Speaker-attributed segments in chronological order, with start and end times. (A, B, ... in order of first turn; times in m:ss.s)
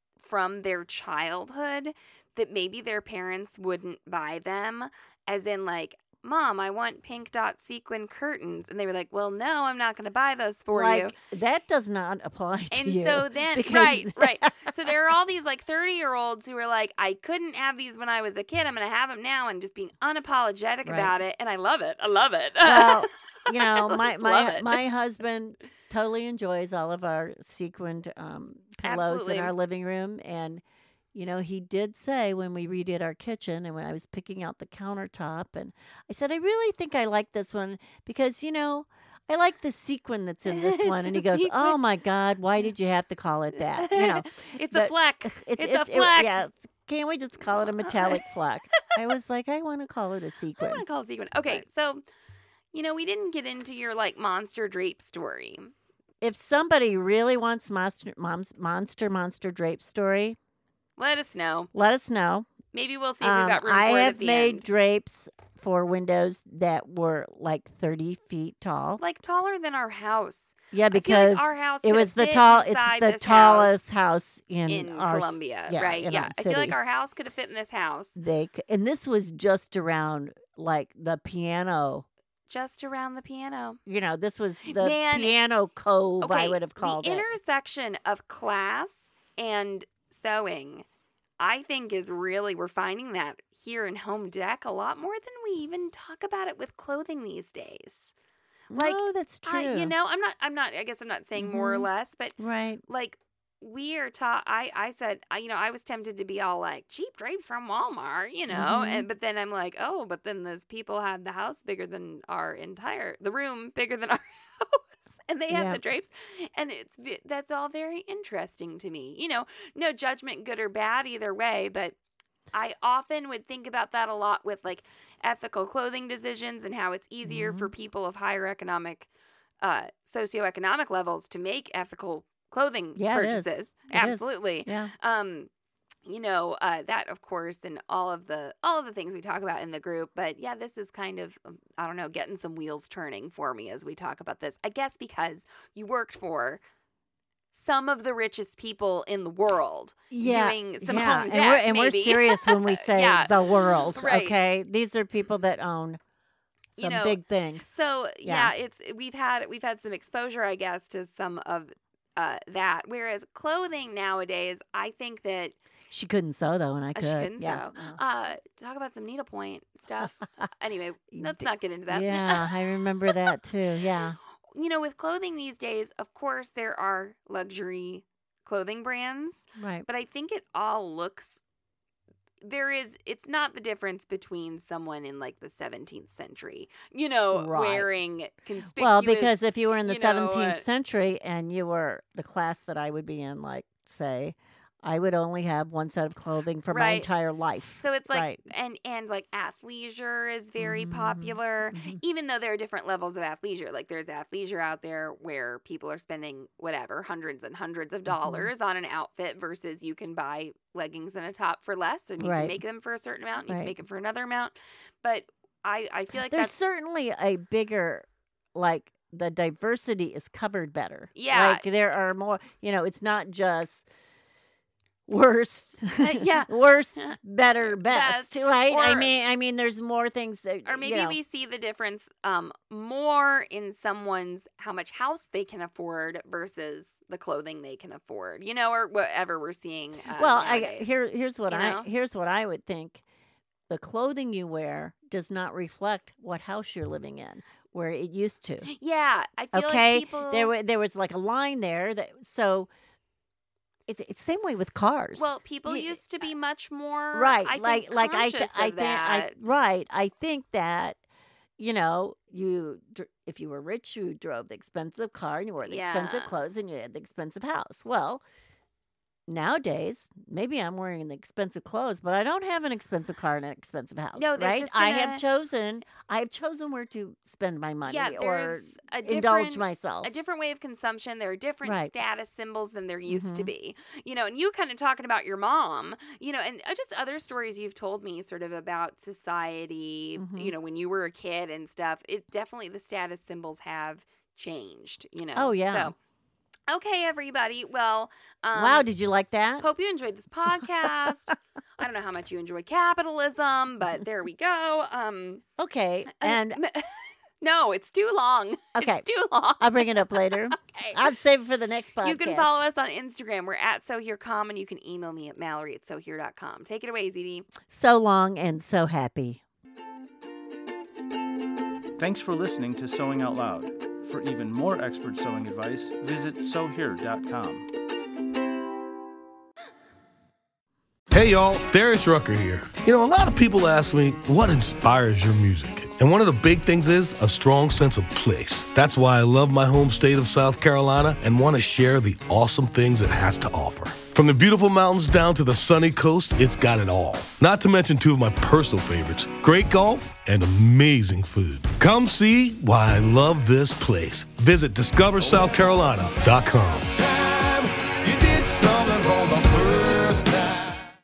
0:00.2-0:11.1 A
0:10.7-0:14.9 B
0:12.7-0:24.8 A
0:20.8-0:21.1 B
0:22.6-0:30.6 B
0:28.8-0:29.5 A
0:31.1-0:50.8 B
0:40.5-0:41.8 A
0:43.7-0:46.4 A
0:47.7-0:48.3 A
0:50.6-0:52.0 A
0:52.7-0:55.7 A
0:56.2-1:00.4 B
1:01.0-1:01.7 A
1:01.7-1:02.5 B
1:02.7-1:04.6 A
1:03.2-1:09.0 B
1:09.0-1:13.8 A
1:10.7-1:16.8 B
1:14.7-1:18.1 A
1:18.2-1:22.0 B
1:22.5-1:23.8 A
1:23.8-1:27.3 B
1:24.6-1:25.3 A
1:26.2-1:30.8 A
1:31.4-1:38.1 A
1:38.7-1:39.9 B
1:38.7-2:01.9 A
1:41.4-1:42.8 B
1:48.5-1:49.1 B
1:55.5-1:55.8 B
2:02.5-2:09.1 A
2:07.2-2:07.7 B
2:09.6-2:15.5 A
2:13.0-2:14.9 B
2:16.0-2:26.6 A
2:27.5-2:34.4 A
2:30.1-2:36.0 B
2:36.8-2:45.6 A
2:36.8-2:38.5 B
2:45.9-2:48.0 B
2:47.0-2:53.1 A
2:51.1-2:54.2 B
2:54.5-3:01.4 A
2:59.6-2:59.9 B
3:02.4-3:10.6 A
3:07.3-3:07.9 B
3:08.8-3:18.4 B
3:16.7-3:17.1 A
3:17.8-3:36.7 A
3:20.6-3:22.0 B
3:28.1-3:28.5 B
3:32.2-3:32.6 B
3:33.5-3:33.7 B
3:36.2-3:43.8 B
3:41.2-3:41.6 A
3:45.1-3:51.2 B
3:46.0-3:49.2 A
3:50.6-4:00.9 A
4:00.1-4:03.0 B
4:01.5-4:01.9 A
4:03.7-4:08.7 B
4:08.7-4:10.5 A
4:09.5-4:12.7 B
4:13.9-4:16.0 B
4:15.2-4:19.3 A
4:17.1-4:21.0 B
4:21.6-4:28.2 B
4:25.6-4:26.4 A
4:29.3-4:40.1 B
4:34.1-4:35.2 A
4:37.8-4:55.9 A
4:41.6-4:41.9 B
4:43.0-4:43.5 B
4:50.2-4:50.5 B
4:55.3-4:55.9 B
4:56.7-4:58.9 A
4:58.5-4:59.6 B
4:59.6-5:05.4 A
5:00.5-5:01.1 B
5:05.6-5:06.6 B
5:06.1-5:11.0 A
5:08.7-5:09.0 B
5:09.6-5:12.5 B
5:12.0-5:17.5 A
5:17.6-5:19.4 B
5:22.0-5:27.7 C
5:31.1-6:00.5 D